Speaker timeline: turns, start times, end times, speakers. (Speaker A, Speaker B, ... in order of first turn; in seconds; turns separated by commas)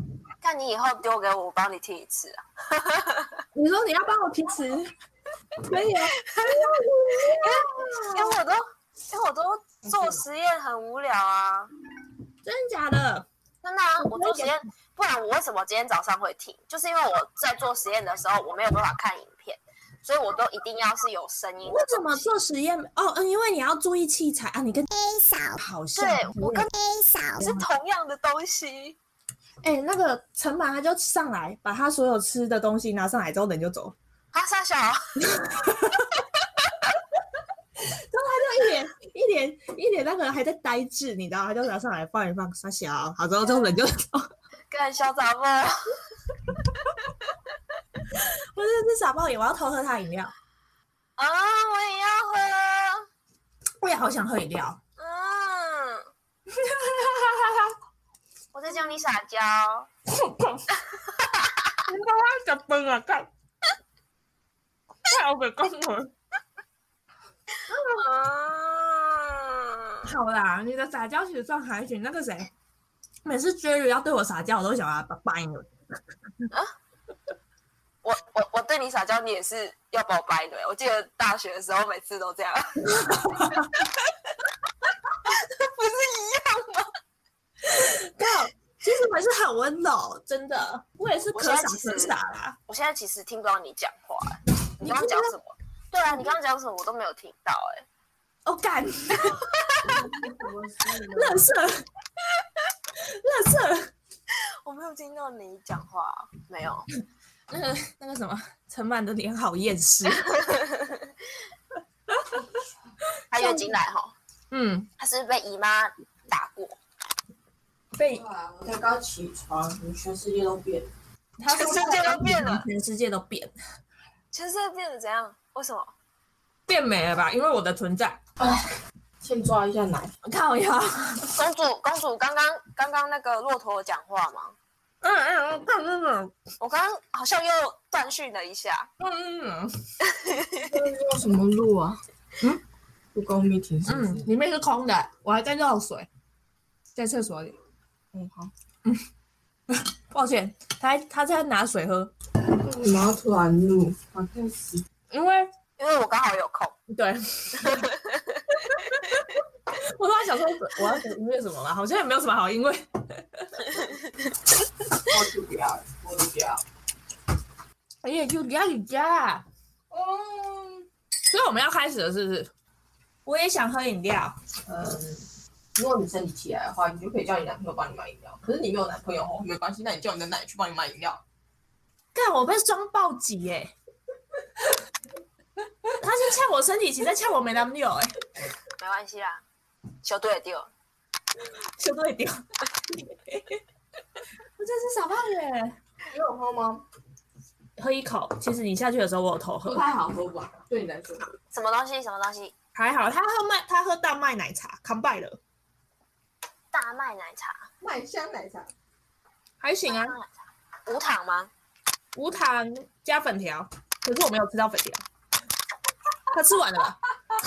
Speaker A: 0.4-3.4, Speaker B: 3.5-4.9, Speaker B: 5.6-8.3, Speaker A: 7.3-11.7, Speaker B: 9.9-10.2, Speaker B: 12.4-13.3, Speaker A: 13.6-22.3, Speaker B: 14.0-14.6, Speaker B: 21.6-26.7, Speaker A: 25.9-29.0, Speaker B: 27.4-27.6, Speaker B: 29.6-34.0, Speaker A: 34.3-35.0, Speaker B: 35.2-36.1, Speaker B: 38.1-44.3, Speaker A: 44.7-46.0, Speaker B: 48.5-50.3, Speaker A: 51.2-53.1, Speaker B: 53.8-54.8, Speaker A: 55.0-56.0, Speaker B: 56.6-57.7, Speaker A: 58.5-59.9, Speaker B: 60.1-60.6, Speaker B: 61.9-63.3, Speaker B: 65.1-66.1, Speaker A: 67.7-69.7, Speaker B: 70.0-72.5, Speaker B: 73.2-75.7, Speaker A: 78.0-82.8, Speaker B: 82.9-83.7, Speaker A: 85.3-86.9, Speaker B: 87.6-92.6, Speaker A: 91.3-92.2, Speaker A: 92.7-97.8, Speaker B: 94.8-95.3, Speaker B: 98.5-99.4, Speaker C: 99.9-101.4, Speaker B: 101.1-101.8, Speaker B: 103.2-103.9, Speaker A: 104.6-106.9, Speaker B: 107.5-110.2, Speaker A: 110.3-111.1, Speaker A: 113.3-114.1, Speaker B: 113.3-113.7, Speaker B: 114.5-114.9, Speaker A: 115.0-116.8, Speaker B: 117.9-118.2, Speaker C: 118.1-120.9, Speaker B: 121.4-123.5, Speaker A: 121.5-122.7, Speaker A: 124.3-125.9, Speaker B: 126.7-128.2, Speaker C: 128.4-128.7, Speaker C: 129.2-130.1, Speaker B: 130.2-131.3, Speaker A: 131.3-134.6, Speaker B: 135.0-136.3, Speaker A: 136.6-138.9, Speaker B: 139.0-139.7, Speaker A: 140.2-140.7, Speaker C: 140.7-142.0, Speaker C: 143.1-144.3, Speaker B: 143.8-146.1, Speaker B: 146.9-147.6, Speaker C: 148.1-148.5, Speaker B: 149.7-152.1, Speaker C: 152.5-154.8, Speaker B: 155.1-155.5, Speaker A: 155.8-156.8, Speaker B: 156.9-157.9, Speaker A: 157.6-158.4, Speaker B: 158.7-163.9, Speaker C: 165.1-166.6, Speaker B: 168.0-169.4, Speaker C: 169.9-170.8, Speaker B: 171.3-172.5, Speaker B: 173.2-174.3, Speaker C: 174.7-181.2, Speaker B: 182.1-183.7, Speaker B: 186.0-188.1, Speaker A: 188.8-189.4, Speaker A: 190.0-190.7, Speaker B: 191.8-192.4, Speaker B: 192.9-193.6, Speaker B: 194.6-195.7, Speaker C: 196.1-196.8, Speaker B: 197.8-199.8, Speaker C: 199.6-201.3, Speaker A: 201.5-202.5, Speaker B: 202.7-205.4, Speaker A: 206.7-207.6, Speaker C: 207.8-208.7, Speaker B: 209.6-210.2, Speaker A: 209.8-210.3, Speaker A: 210.8-211.5, Speaker B: 212.1-215.0, Speaker B: 216.3-217.0